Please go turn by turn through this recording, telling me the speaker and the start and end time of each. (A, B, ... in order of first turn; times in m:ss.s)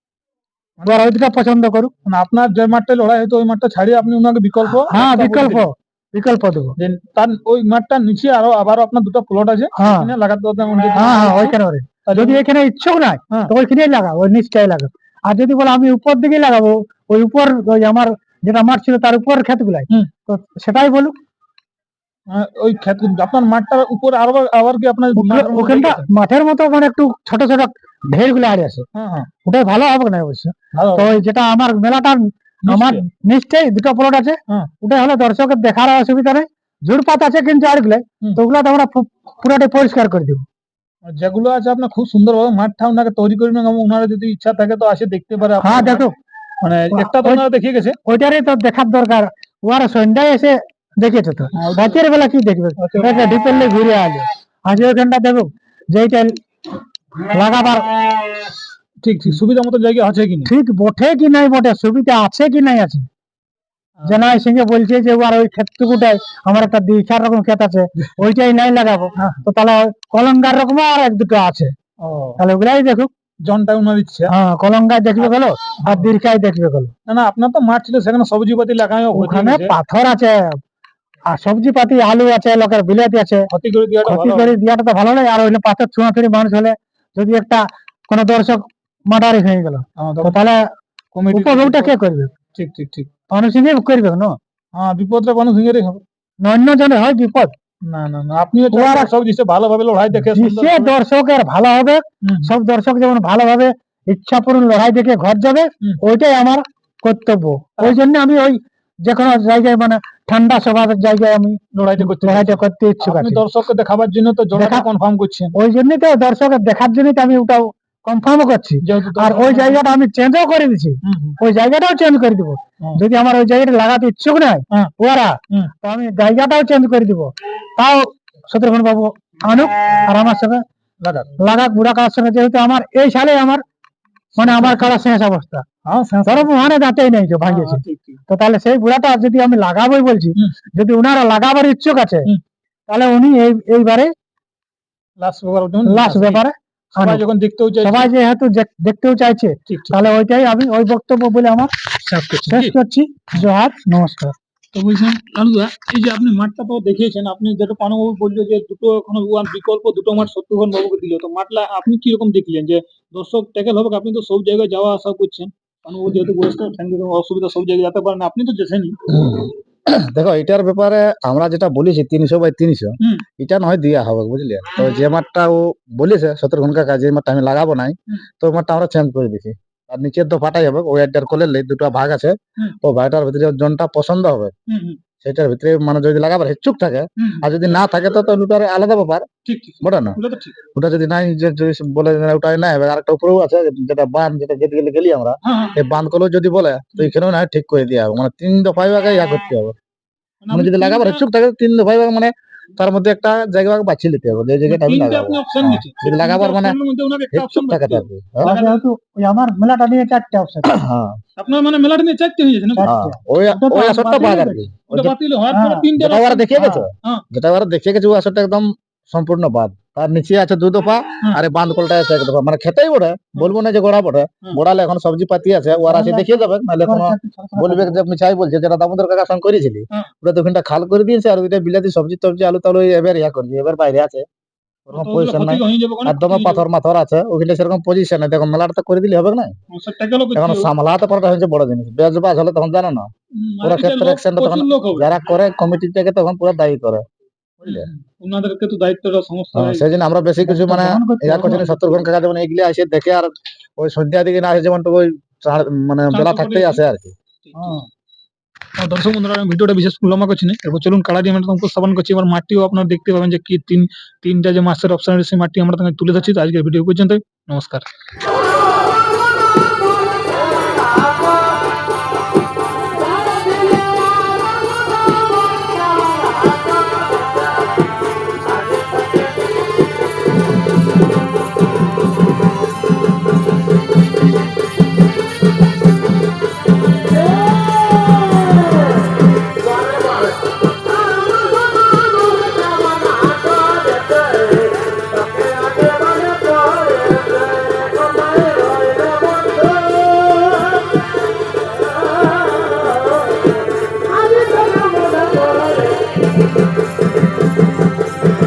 0:00.8-0:01.1 A
0:00.8-0:01.9 B
0:02.0-0:05.6 A
0:04.9-0:06.7 B
0:06.8-0:12.4 A
0:09.8-0:10.1 B
0:10.9-0:21.2 B
0:22.3-0:26.1 A
0:25.1-0:28.8 B
0:28.9-0:29.3 A
0:29.4-0:40.4 B
0:30.7-0:31.2 A
0:32.7-0:33.0 A
0:41.0-0:46.0 A
0:45.6-0:46.1 B
0:46.6-0:48.0 A
0:46.9-0:47.4 B
0:48.0-0:56.4 B
0:51.5-0:52.0 A
0:52.8-0:53.3 A
0:57.2-0:57.9 B
0:59.0-1:00.5 A
1:00.4-1:03.0 B
1:04.0-1:11.7 B
1:09.2-1:09.4 A
1:12.0-1:12.4 A
1:12.4-1:13.1 B
1:13.4-1:14.3 A
1:14.3-1:16.9 B
1:15.8-1:16.1 A
1:17.1-1:19.7 A
1:19.1-1:20.6 B
1:21.3-1:23.5 B
1:23.5-1:24.6 A
1:24.0-1:30.6 B
1:30.0-1:30.4 A
1:31.1-1:31.9 A
1:31.3-1:32.3 B
1:32.5-1:33.1 A
1:33.3-1:34.4 B
1:34.7-1:36.0 A
1:36.4-1:37.5 B
1:37.8-1:40.9 A
1:38.7-1:39.1 B
1:40.2-1:53.4 B
1:42.2-1:42.5 A
1:51.7-1:55.5 A
1:54.5-1:54.8 B
1:55.5-2:10.6 B
1:58.8-1:59.8 A
2:01.0-2:01.4 A
2:11.0-2:11.4 A
2:11.4-2:13.6 B
2:14.3-2:14.9 A
2:14.4-2:15.6 B
2:15.8-2:16.5 A
2:16.2-2:22.3 B
2:17.4-2:18.2 A
2:22.9-2:24.1 B
2:25.2-2:26.4 A
2:25.8-2:27.2 B
2:26.9-2:28.1 A
2:27.8-2:31.7 B
2:29.7-2:30.0 A
2:32.0-2:32.7 A
2:32.4-2:34.3 B
2:34.7-2:49.0 A
2:49.1-3:04.5 C
3:04.7-3:05.0 A
3:05.2-3:09.3 C
3:07.2-3:07.5 A
3:09.4-3:10.6 A
3:09.8-3:10.2 C
3:10.7-3:19.7 C
3:15.4-3:15.8 A
3:20.4-3:21.2 A
3:20.5-3:26.8 C
3:24.7-3:28.8 A
3:27.3-3:28.5 C
3:28.4-3:30.7 B
3:30.6-3:31.2 C
3:31.4-3:32.9 A
3:32.8-3:34.7 B
3:32.8-3:35.1 C
3:34.9-3:37.2 A
3:35.5-3:35.9 B
3:36.0-3:54.2 C
3:45.9-3:48.0 B
3:54.9-3:59.5 C
3:54.9-3:56.6 A
3:59.7-4:00.7 A
4:00.3-4:03.1 C
4:03.4-4:05.2 A
4:03.6-4:07.0 C
4:07.6-4:09.8 A
4:09.5-4:17.2 C
4:10.4-4:12.0 B
4:16.1-4:16.8 A
4:17.4-4:17.7 A
4:17.6-4:17.8 B
4:18.8-4:27.8 A